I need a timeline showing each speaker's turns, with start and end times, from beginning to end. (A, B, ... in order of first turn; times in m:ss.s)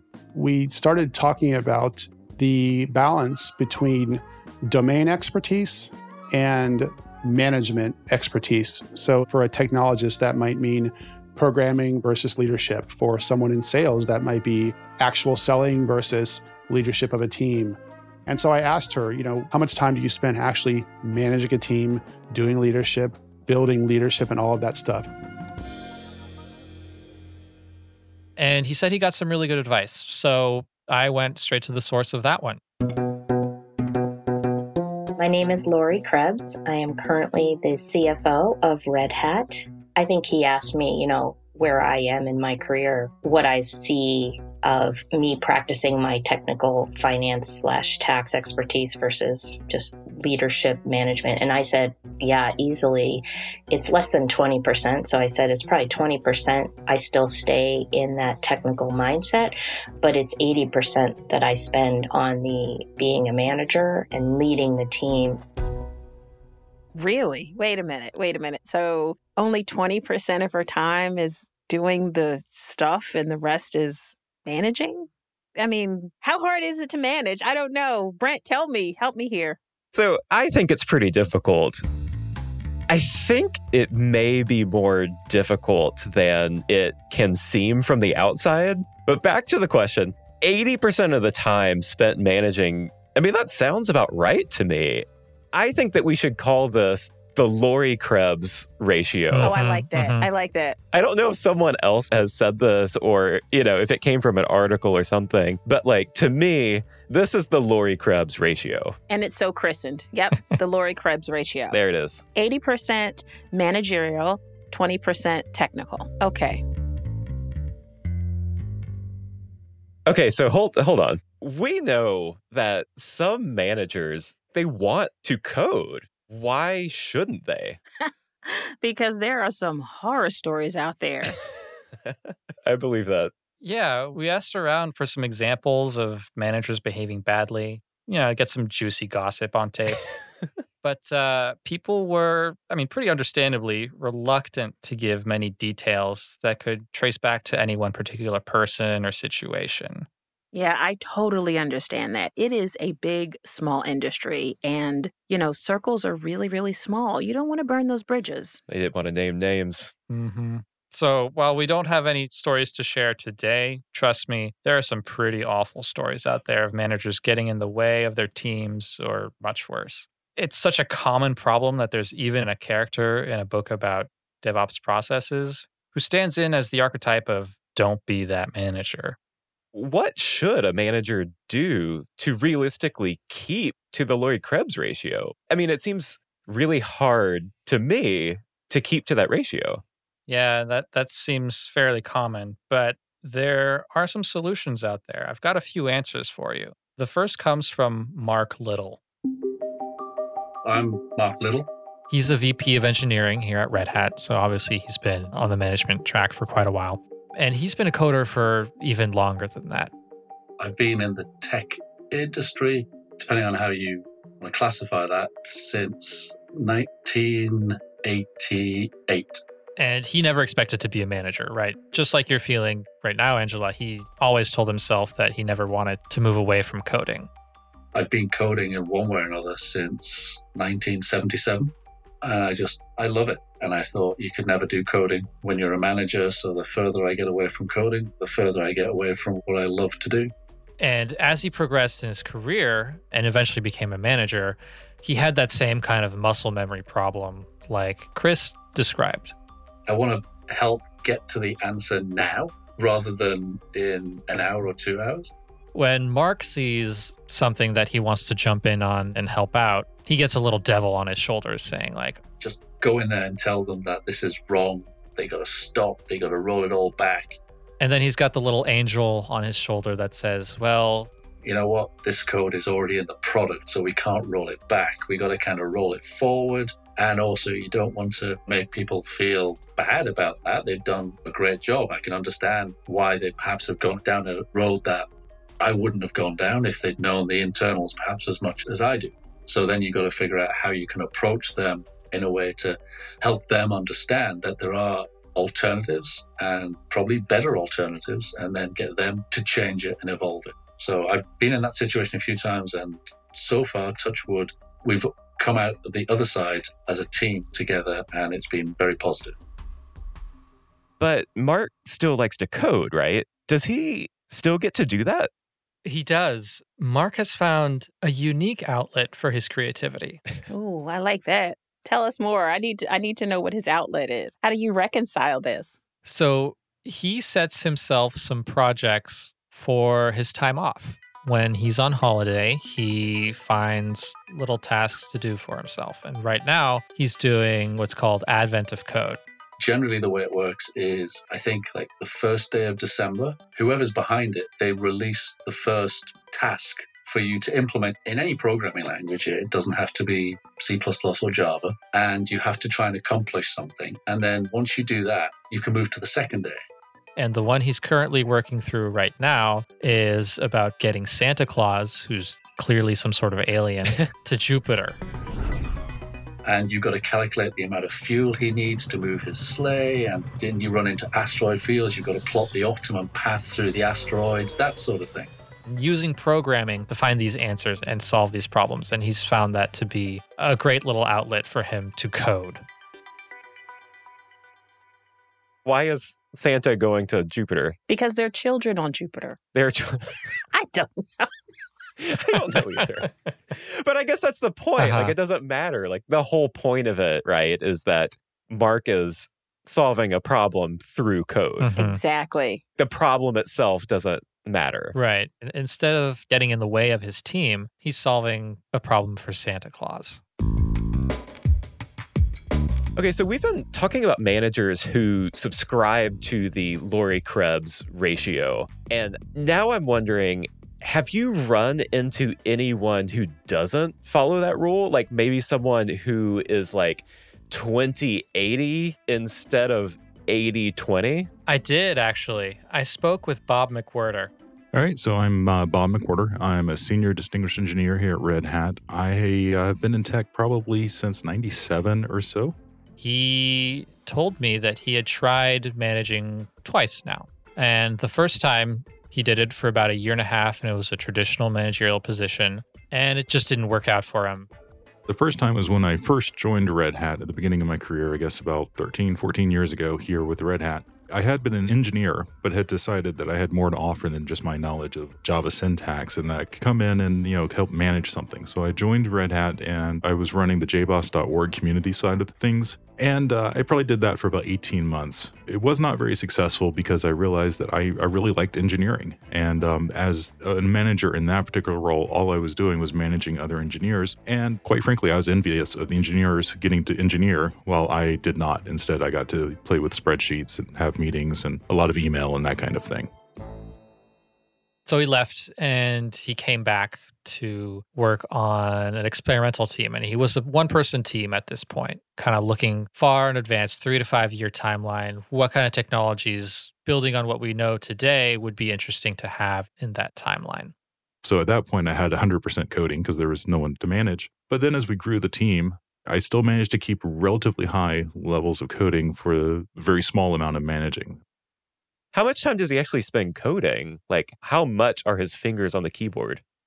0:00.3-0:25.1 A
0:28.4-0:32.6 B
0:35.2-1:05.4 C
1:07.0-1:19.6 D
1:19.9-1:21.8 E
1:22.9-1:39.6 E
1:39.3-1:40.3 B
1:39.4-1:40.8 D
1:40.9-1:49.0 E
1:49.1-1:51.8 D
1:51.7-1:52.2 E
1:52.4-1:56.6 D
2:00.1-2:07.8 E
2:08.1-2:11.4 D
2:12.0-2:13.3 E
2:13.6-2:20.0 B
2:20.8-2:30.1 B
2:30.5-2:38.6 D
2:38.7-2:39.9 E
2:40.1-2:59.2 B
2:59.7-3:09.8 E
3:10.3-3:19.0 B
3:20.6-3:21.7 F
3:22.1-3:29.9 B
3:30.6-3:39.4 F
3:39.8-3:47.3 B
3:47.9-4:00.3 F
4:00.8-4:09.4 B
4:09.9-4:15.3 F
4:15.7-4:22.2 B
4:22.4-4:27.4 F
4:27.8-4:31.1 B
4:31.4-4:45.1 F
4:45.6-5:09.4 F
5:11.0-5:15.3 E
5:15.8-5:20.2 B
5:20.5-5:25.8 D
5:26.1-5:39.2 B
5:39.6-5:56.6 F
5:57.2-6:05.0 B
6:06.4-6:15.3 F
6:15.7-6:22.6 B
6:25.6-6:27.8 E
6:27.9-6:29.4 D
6:29.6-6:30.2 E
6:30.5-6:31.3 D
6:32.0-6:41.7 E
6:33.0-6:33.3 B
6:34.8-6:35.2 B
6:41.6-6:42.0 B
6:41.7-6:42.6 D
6:42.8-6:45.0 E
6:44.9-6:50.2 B
6:53.0-7:11.3 E
7:11.5-7:14.3 B
7:14.7-7:22.6 G
7:23.0-7:34.5 B
7:35.1-8:13.1 G
8:14.9-8:30.7 B
8:31.2-8:41.2 G
8:42.1-8:46.4 E